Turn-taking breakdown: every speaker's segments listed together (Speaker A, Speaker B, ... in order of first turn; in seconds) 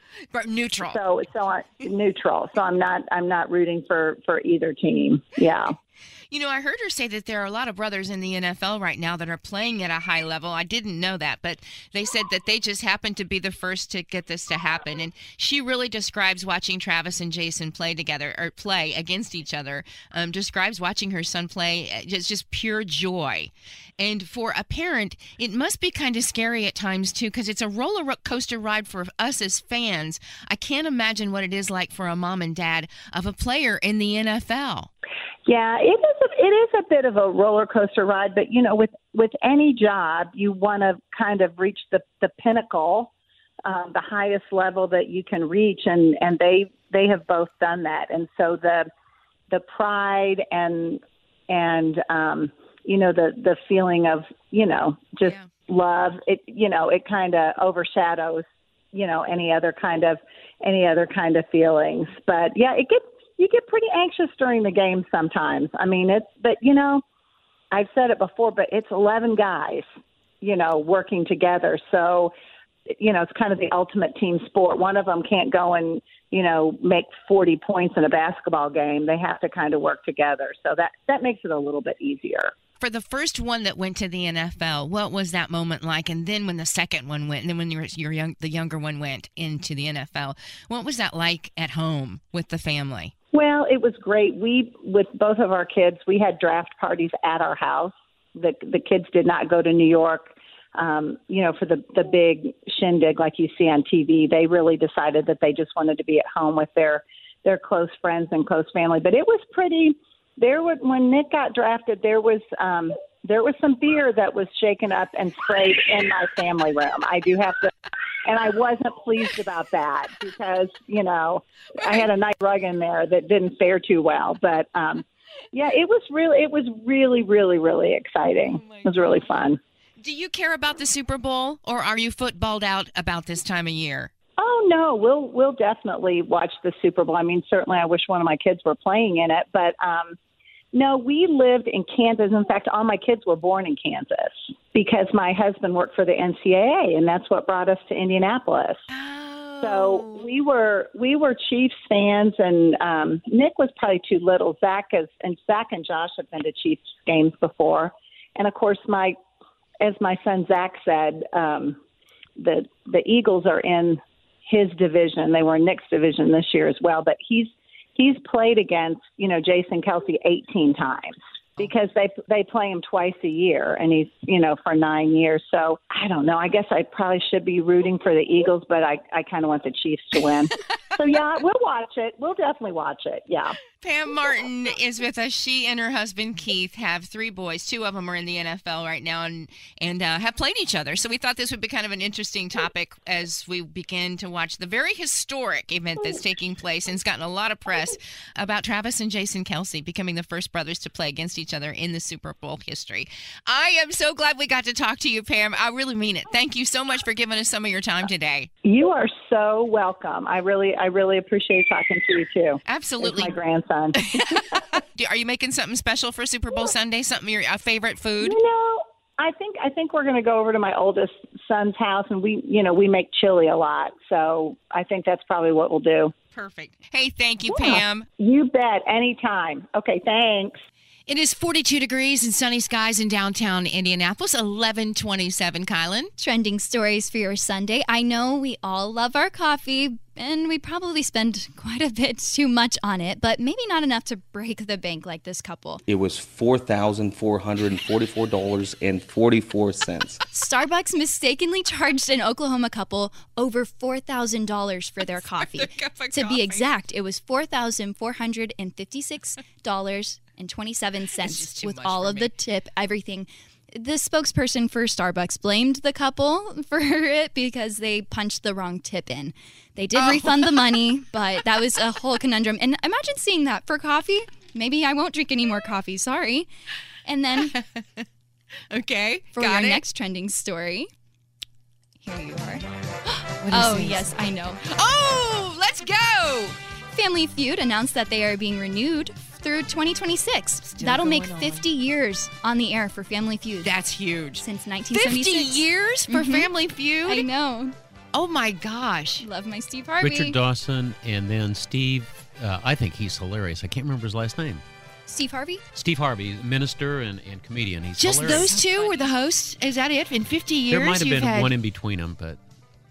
Speaker A: 0.3-1.0, 6.3-34.9, 82.8-93.1, 121.8-122.1, 128.5-129.2, 130.0-134.1, 148.9-150.2, 183.8-208.5, 212.7-213.3, 214.1-218.4, 226.3-228.1, 231.1-236.1, 255.2-256.6, 261.2-262.3, 269.9-270.8, 278.7-279.8, 283.4-284.1, 284.6-286.6, 290.7-291.6, 293.6-297.3, 298.1-299.2, 308.0-311.5
Speaker B: 0.8-5.8, 35.5-43.1, 43.6-48.9, 49.5-67.0, 67.7-69.8, 70.4-72.3, 73.0-82.5, 93.3-117.7, 118.2-129.6, 134.4-140.2, 140.7-148.8, 149.6-159.2, 159.8-161.8, 162.4-183.6, 208.6-214.4, 218.2-226.1, 227.5-230.6
Speaker C: 236.2-245.8, 250.3-276.5, 277.1-277.6, 279.4-280.9, 282.0-282.6, 283.5-284.6, 286.9-293.7, 294.4-296.5, 297.1-297.8, 299.2-300.4, 305.1-305.6, 308.3-309.1
Speaker D: 245.9-250.2
Speaker E: 300.0-304.6, 305.8-308.6, 310.7-312.4